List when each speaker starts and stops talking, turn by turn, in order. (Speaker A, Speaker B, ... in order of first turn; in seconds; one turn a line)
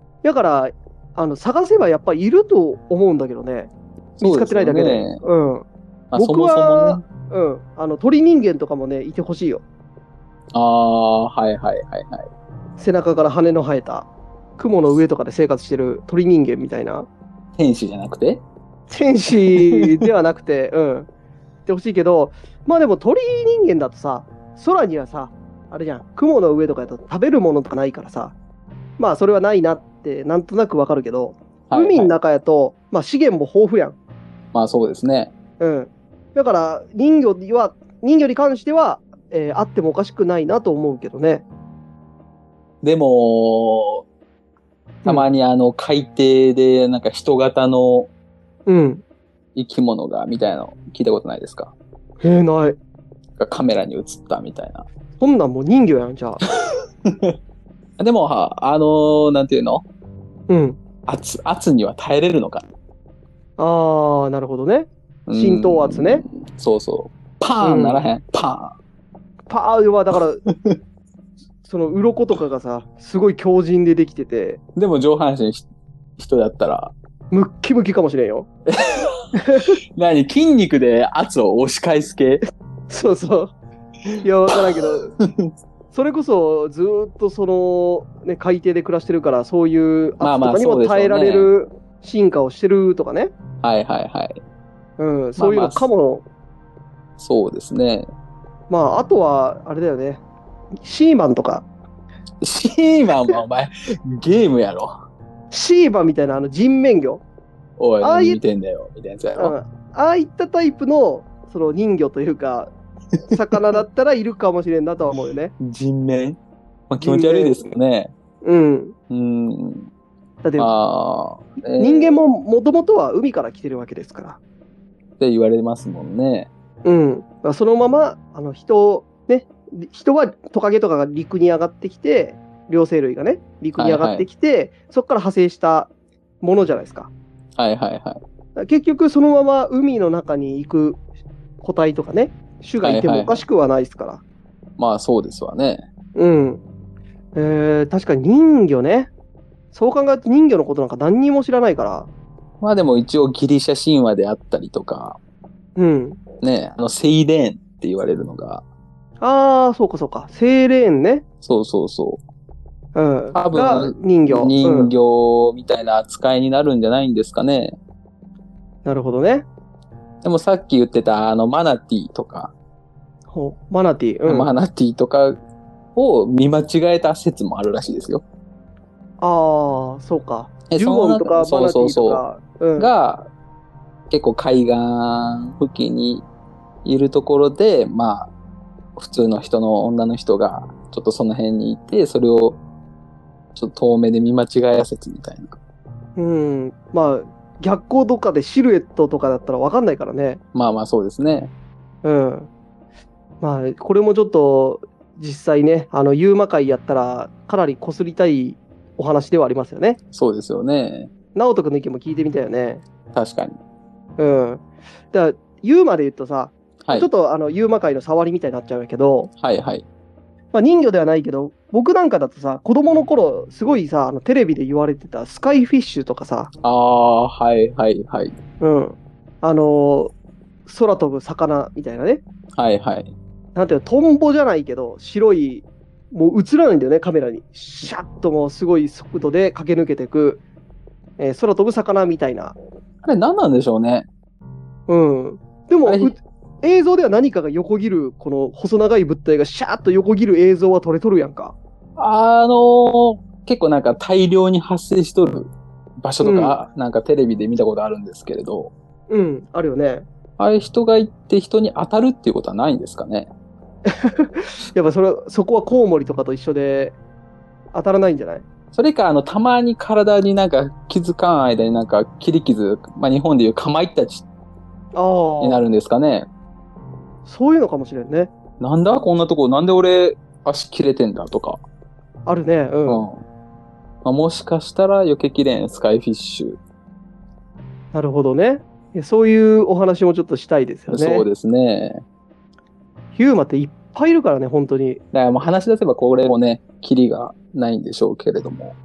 Speaker A: 0.2-9.6
Speaker B: 4.2-5.2
Speaker B: 6.1-7.0
Speaker B: 10.5-12.3
Speaker A: 12.8-17.1
Speaker B: 17.6-18.4
Speaker A: 18.9-21.1
Speaker B: 19.5-19.9
Speaker A: 21.7-28.4
Speaker A: 29.0-34.0
Speaker B: 31.7-32.1
Speaker B: 34.5-35.3
Speaker A: 35.6-41.5
Speaker B: 42.8-44.0
Speaker B: 45.0-48.1
Speaker A: 48.7-49.0
Speaker B: 49.5-51.7
Speaker A: 52.2-52.8
Speaker B: 53.4-54.9
Speaker A: 55.2-56.4
Speaker B: 57.0-57.4
Speaker B: 58.0-59.8
Speaker A: 60.5-60.8
Speaker B: 61.1-62.7
Speaker A: 63.6-66.2
Speaker B: 65.3-68.8
Speaker A: 67.6-68.1
Speaker A: 69.5-70.4
Speaker B: 70.5-70.8
Speaker A: 71.6-74.6
Speaker B: 74.8-75.7
Speaker B: 76.2-76.9
Speaker A: 77.3-78.5
Speaker B: 78.7-79.2
Speaker A: 79.4-79.8
Speaker B: 80.0-82.4
Speaker A: 82.9-83.5
Speaker B: 84.2-85.5
Speaker A: 84.2-85.1
Speaker A: 85.9-93.3
Speaker B: 90.2-91.5
Speaker B: 93.6-94.4
Speaker A: 95.0-96.2
Speaker B: 95.4-95.9
Speaker B: 97.2-98.1
Speaker A: 98.7-100.2
Speaker A: 100.8-101.7
Speaker B: 102.4-104.9
Speaker A: 105.5-107.2
Speaker B: 107.8-109.5
Speaker A: 108.0-108.4
Speaker A: 109.4-112.7
Speaker A: 113.3-115.5
Speaker B: 115.6-116.4
Speaker B: 116.9-118.1
Speaker A: 117.0-117.7
Speaker A: 118.4-119.0
Speaker B: 119.1-119.9
Speaker A: 120.4-120.7
Speaker B: 120.6-122.2
Speaker A: 121.8-124.4
Speaker B: 125.2-126.5
Speaker A: 126.8-135.9
Speaker B: 133.8-134.3
Speaker A: 136.4-137.1
Speaker B: 137.6-138.2
Speaker A: 138.6-141.0
Speaker A: 141.6-144.2
Speaker B: 142.8-143.4
Speaker B: 144.8-145.9
Speaker A: 146.2-146.6
Speaker A: 147.3-149.1
Speaker A: 149.7-152.1
Speaker B: 152.6-155.2
Speaker A: 155.8-156.2
Speaker B: 156.4-158.6
Speaker A: 159.2-161.2
Speaker B: 161.4-162.2
Speaker A: 162.9-164.9
Speaker B: 163.3-167.8
Speaker A: 168.8-169.5
Speaker B: 170.2-172.5
Speaker A: 173.3-174.5
Speaker B: 174.3-175.4
Speaker B: 176.0-178.2
Speaker A: 179.2-182.9
Speaker B: 180.7-182.2
Speaker B: 182.8-183.3
Speaker B: 184.1-186.3
Speaker B: 186.8-188.3
Speaker B: 189.0-192.6
Speaker B: 193.6-195.6
Speaker A: 196.2-200.4
Speaker B: 200.5-201.5
Speaker A: 202.0-202.5
Speaker A: 203.4-210.0
Speaker B: 210.1-211.1
Speaker A: 211.3-212.8
Speaker B: 213.1-213.6
Speaker A: 214.2-219.3
Speaker B: 216.8-217.1
Speaker B: 219.4-219.9
Speaker A: 220.5-226.5
Speaker B: 226.6-228.3
Speaker A: 228.6-230.1
Speaker A: 230.7-232.2
Speaker B: 232.6-233.1
Speaker A: 233.6-240.4
Speaker A: 241.2-242.6
Speaker B: 243.0-244.1
Speaker A: 244.9-251.6
Speaker B: 245.8-246.1
Speaker B: 252.0-258.7
Speaker A: 256.2-256.6
Speaker A: 259.1-260.1
Speaker B: 260.4-263.3
Speaker A: 263.9-267.0
Speaker A: 267.7-268.5
Speaker B: 268.7-274.2
Speaker A: 274.9-275.6
Speaker B: 275.4-276.3
Speaker A: 277.3-278.3
Speaker B: 278.6-281.6
Speaker A: 282.3-283.1
Speaker B: 282.9-283.2
Speaker B: 284.1-286.6
Speaker A: 287.9-291.3
Speaker B: 290.9-292.0
Speaker A: 293.1-295.0
Speaker B: 295.1-298.8